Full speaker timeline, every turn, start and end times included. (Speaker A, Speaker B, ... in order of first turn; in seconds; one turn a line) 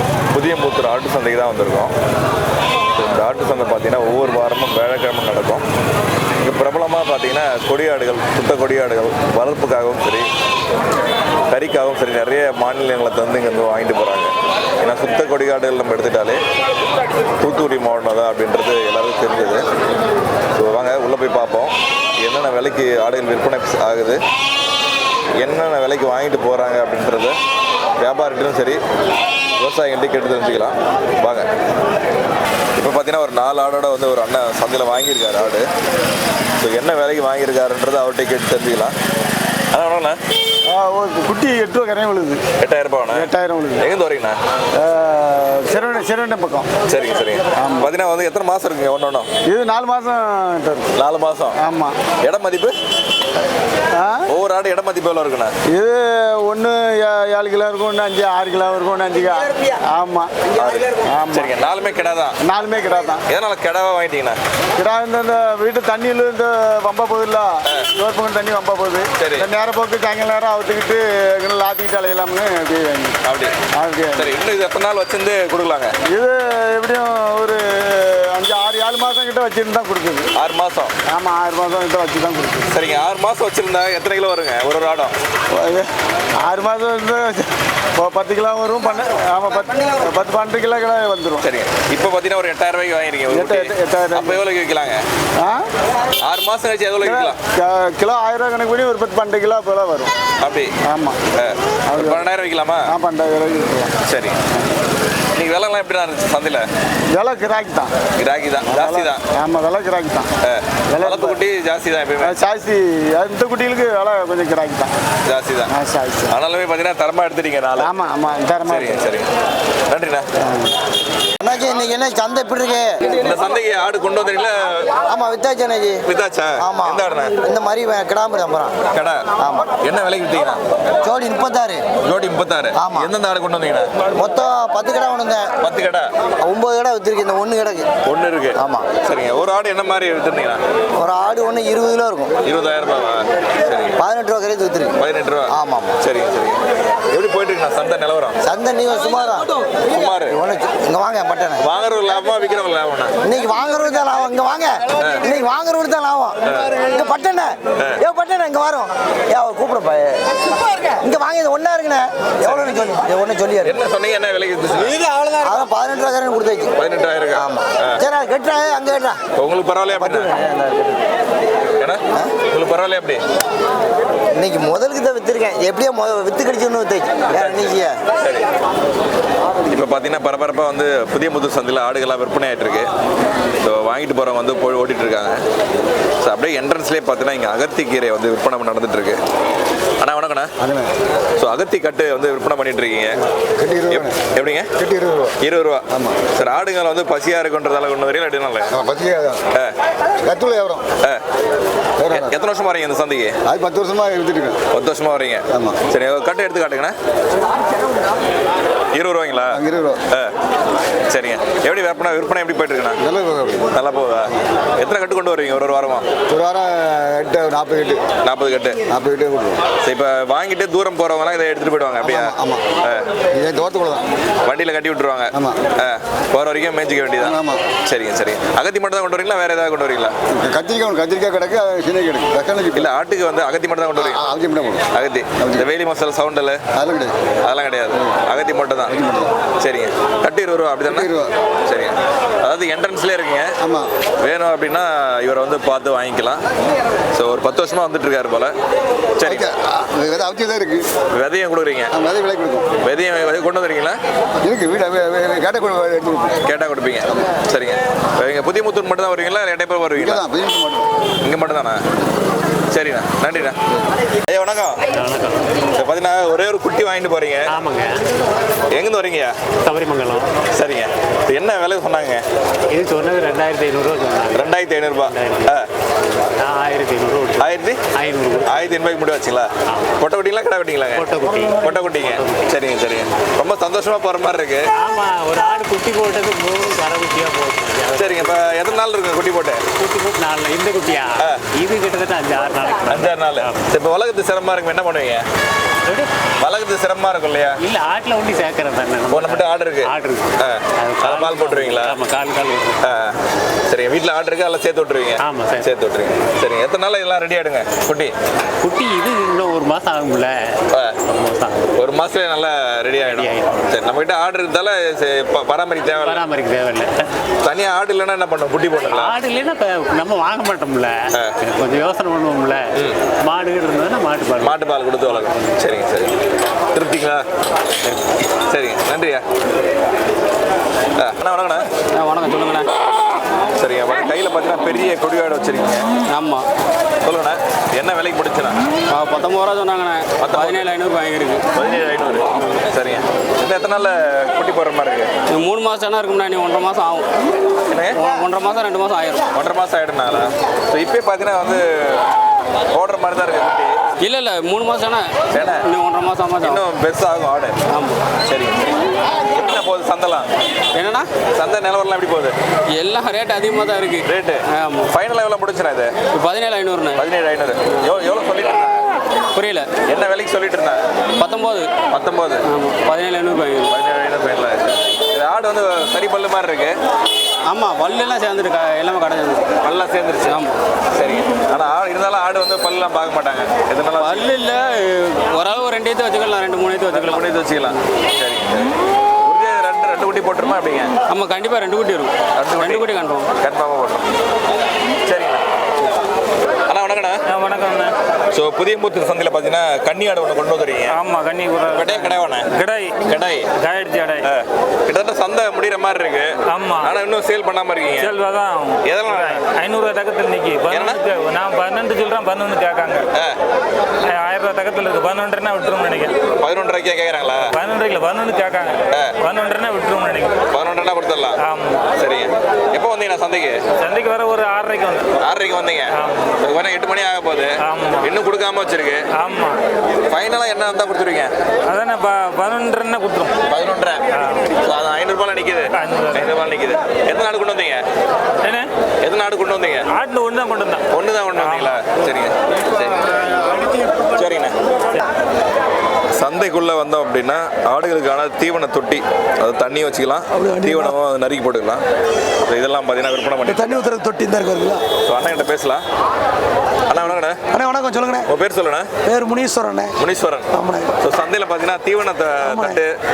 Speaker A: 0.3-1.9
Speaker A: 2.9-5.7
Speaker A: 6.4-10.3
Speaker A: 11.5-16.4
Speaker A: 17.4-19.7
Speaker A: 20.5-24.2
Speaker A: 25.4-27.4
Speaker A: 28.0-28.8
Speaker A: 29.6-31.5
Speaker A: 32.7-35.7
Speaker A: 36.6-38.9
Speaker A: 39.7-40.2
Speaker B: 40.7-42.4
Speaker A: 42.6-43.3
Speaker B: 43.1-43.9
Speaker A: 43.8-44.4
Speaker B: 44.7-46.7
Speaker A: 46.9-49.3
Speaker B: 47.5-47.9
Speaker B: 49.5-50.9
Speaker A: 51.0-51.6
Speaker B: 51.6-52.0
Speaker A: 52.2-52.8
Speaker B: 54.0-54.3
Speaker A: 54.3-55.5
Speaker B: 55.7-60.3
Speaker A: 60.5-62.4
Speaker B: 61.0-61.5
Speaker B: 62.4-63.2
Speaker A: 63.3-64.4
Speaker B: 64.8-73.2
Speaker A: 69.2-69.5
Speaker A: 73.2-73.6
Speaker B: 73.7-74.4
Speaker A: 74.1-75.9
Speaker B: 76.1-80.3
Speaker A: 80.3-80.9
Speaker B: 81.1-82.8
Speaker A: 82.7-85.2
Speaker B: 85.5-85.9
Speaker B: 86.4-91.4
Speaker A: 91.4-95.0
Speaker B: 93.3-94.4
Speaker B: 95.4-95.7
Speaker A: 96.2-97.4
Speaker B: 97.0-100.1
Speaker A: 100.4-100.8
Speaker B: 100.8-101.3
Speaker A: 101.3-102.9
Speaker B: 101.9-102.3
Speaker B: 102.9-103.9
Speaker A: 104.0-104.4
Speaker A: 105.3-106.7
Speaker B: 107.1-108.0
Speaker A: 108.1-109.2
Speaker B: 108.7-110.3
Speaker A: 110.4-112.3
Speaker B: 110.9-111.4
Speaker B: 112.2-114.9
Speaker A: 115.2-115.7
Speaker B: 115.7-116.3
Speaker A: 116.3-117.9
Speaker B: 117.8-119.0
Speaker A: 118.7-119.3
Speaker A: 119.9-120.3
Speaker C: 121.4-123.0
Speaker A: 123.2-124.9
Speaker C: 125.1-126.0
Speaker A: 126.1-127.4
Speaker C: 126.6-128.8
Speaker A: 128.9-130.6
Speaker C: 129.4-129.7
Speaker C: 131.0-131.9
Speaker A: 132.0-134.0
Speaker C: 132.7-133.1
Speaker C: 134.2-135.5
Speaker A: 135.6-136.1
Speaker C: 136.4-137.9
Speaker A: 138.0-140.6
Speaker C: 138.6-138.9
Speaker C: 141.0-142.3
Speaker A: 142.4-144.0
Speaker C: 144.0-146.0
Speaker A: 145.0-148.4
Speaker C: 148.4-149.5
Speaker A: 149.9-150.4
Speaker C: 150.2-151.7
Speaker A: 151.6-153.2
Speaker C: 153.2-160.2
Speaker A: 155.0-155.3
Speaker A: 157.8-158.0
Speaker C: 160.8-163.8
Speaker A: 162.4-162.8
Speaker A: 163.6-165.2
Speaker C: 165.3-166.8
Speaker A: 166.8-168.0
Speaker C: 167.3-169.2
Speaker A: 169.4-170.3
Speaker C: 169.9-171.1
Speaker A: 171.8-173.2
Speaker C: 172.2-172.4
Speaker C: 174.3-178.0
Speaker A: 177.3-178.5
Speaker A: 179.7-182.9
Speaker A: 183.6-185.4
Speaker A: 186.2-189.2
Speaker A: 190.0-190.5
Speaker D: 190.6-190.9
Speaker A: 191.4-193.2
Speaker D: 193.6-194.2
Speaker A: 193.9-194.7
Speaker D: 194.8-195.4
Speaker A: 195.4-198.7
Speaker D: 195.9-196.3
Speaker D: 198.7-199.4
Speaker D: 200.2-200.8
Speaker D: 202.0-202.3
Speaker A: 202.1-203.4
Speaker D: 203.4-204.6
Speaker A: 204.7-207.0
Speaker D: 205.5-205.8
Speaker A: 208.9-210.3
Speaker D: 209.5-210.0
Speaker A: 211.1-213.0
Speaker D: 213.0-213.7
Speaker A: 213.7-216.1
Speaker D: 216.3-218.0
Speaker A: 218.2-218.8
Speaker D: 218.9-219.6
Speaker A: 219.8-223.1
Speaker D: 222.0-222.6
Speaker D: 223.3-224.1
Speaker A: 224.4-230.2
Speaker D: 225.3-225.6
Speaker D: 227.2-227.6
Speaker D: 230.3-232.9
Speaker A: 232.7-234.2
Speaker D: 234.0-234.9
Speaker A: 234.9-236.6
Speaker D: 235.4-235.7
Speaker D: 236.7-237.2
Speaker A: 237.4-239.0
Speaker D: 238.9-239.3
Speaker A: 239.6-241.1
Speaker D: 240.9-241.3
Speaker A: 241.7-243.6
Speaker D: 243.6-243.9
Speaker A: 244.2-246.4
Speaker A: 247.1-248.5
Speaker A: 249.2-249.5
Speaker D: 249.2-250.9
Speaker A: 251.1-251.9
Speaker D: 251.9-252.7
Speaker A: 252.8-254.0
Speaker D: 254.4-256.4
Speaker A: 256.4-260.2
Speaker D: 259.9-260.9
Speaker A: 261.2-261.8
Speaker A: 262.7-263.6
Speaker A: 264.2-264.8
Speaker E: 264.9-265.5
Speaker A: 265.7-267.6
Speaker E: 267.5-268.0
Speaker A: 268.7-269.4
Speaker E: 269.6-270.3
Speaker A: 270.5-272.2
Speaker E: 272.7-274.4
Speaker A: 274.3-275.7
Speaker E: 275.1-275.5
Speaker E: 276.4-277.4
Speaker A: 277.4-277.8
Speaker E: 277.9-278.4
Speaker A: 278.4-281.1
Speaker E: 281.0-281.6
Speaker A: 281.6-284.7
Speaker E: 282.2-282.5
Speaker E: 284.8-288.3
Speaker A: 287.9-289.6
Speaker E: 289.8-293.7
Speaker A: 291.2-291.5
Speaker A: 292.8-295.3
Speaker A: 296.4-297.6
Speaker E: 297.6-302.8
Speaker A: 299.1-302.0
Speaker A: 302.8-308.1
Speaker E: 305.2-305.7
Speaker E: 308.6-311.7
Speaker A: 310.7-311.0
Speaker A: 311.7-316.2
Speaker E: 313.1-313.6
Speaker E: 316.0-317.1
Speaker A: 317.4-319.1
Speaker E: 318.9-322.6
Speaker A: 321.1-321.4
Speaker A: 322.8-323.1
Speaker E: 323.2-324.5
Speaker A: 324.4-326.2
Speaker A: 326.7-327.2
Speaker A: 328.5-329.2
Speaker A: 331.0-331.7
Speaker F: 332.0-332.7
Speaker A: 333.5-335.9
Speaker F: 336.1-336.4
Speaker A: 337.0-338.6
Speaker F: 338.9-341.4
Speaker A: 340.2-340.7
Speaker A: 341.5-345.1
Speaker F: 345.3-347.1
Speaker A: 347.7-348.0
Speaker F: 347.9-349.3
Speaker A: 349.3-352.1
Speaker A: 352.7-353.8
Speaker F: 354.0-355.1
Speaker A: 355.3-355.7
Speaker F: 355.6-356.7
Speaker A: 356.4-357.6
Speaker F: 357.7-358.0
Speaker A: 358.2-358.8
Speaker A: 359.3-360.3
Speaker F: 360.7-361.1
Speaker A: 361.3-362.4
Speaker F: 362.8-364.9
Speaker A: 364.1-365.9
Speaker F: 366.1-367.1
Speaker A: 366.9-368.9
Speaker F: 369.4-369.8
Speaker A: 369.8-370.8
Speaker F: 371.2-371.7
Speaker A: 371.9-372.4
Speaker F: 372.5-373.7
Speaker A: 373.7-376.8
Speaker F: 377.5-379.5
Speaker A: 379.6-380.4
Speaker F: 380.2-380.5
Speaker A: 380.9-384.3
Speaker F: 383.9-387.3
Speaker A: 386.9-390.9
Speaker F: 391.1-393.3
Speaker A: 392.3-392.9
Speaker A: 393.4-394.1
Speaker A: 395.1-395.4
Speaker A: 396.7-397.3
Speaker G: 397.3-397.9
Speaker A: 398.3-401.0
Speaker G: 400.9-404.3
Speaker A: 401.7-402.5
Speaker A: 403.0-403.5
Speaker A: 404.2-408.1
Speaker G: 406.5-406.9
Speaker G: 408.0-413.1
Speaker A: 408.8-409.4
Speaker A: 410.7-411.1
Speaker G: 414.1-416.2
Speaker A: 416.4-417.5
Speaker G: 417.6-420.4
Speaker A: 418.9-419.2
Speaker A: 420.5-423.6
Speaker G: 421.4-421.9
Speaker G: 423.8-425.1
Speaker A: 425.2-429.1
Speaker G: 425.9-426.4
Speaker G: 427.6-428.3
Speaker G: 429.1-429.6
Speaker A: 430.1-431.3
Speaker G: 431.7-433.3
Speaker A: 433.5-434.1
Speaker G: 434.1-434.6
Speaker A: 434.6-437.9
Speaker G: 435.8-436.5
Speaker G: 438.4-438.7
Speaker A: 439.0-439.9
Speaker G: 439.9-440.9
Speaker A: 440.9-443.0
Speaker G: 441.4-442.0
Speaker A: 444.1-444.6
Speaker A: 446.1-451.8
Speaker A: 452.4-455.8
Speaker A: 456.9-462.9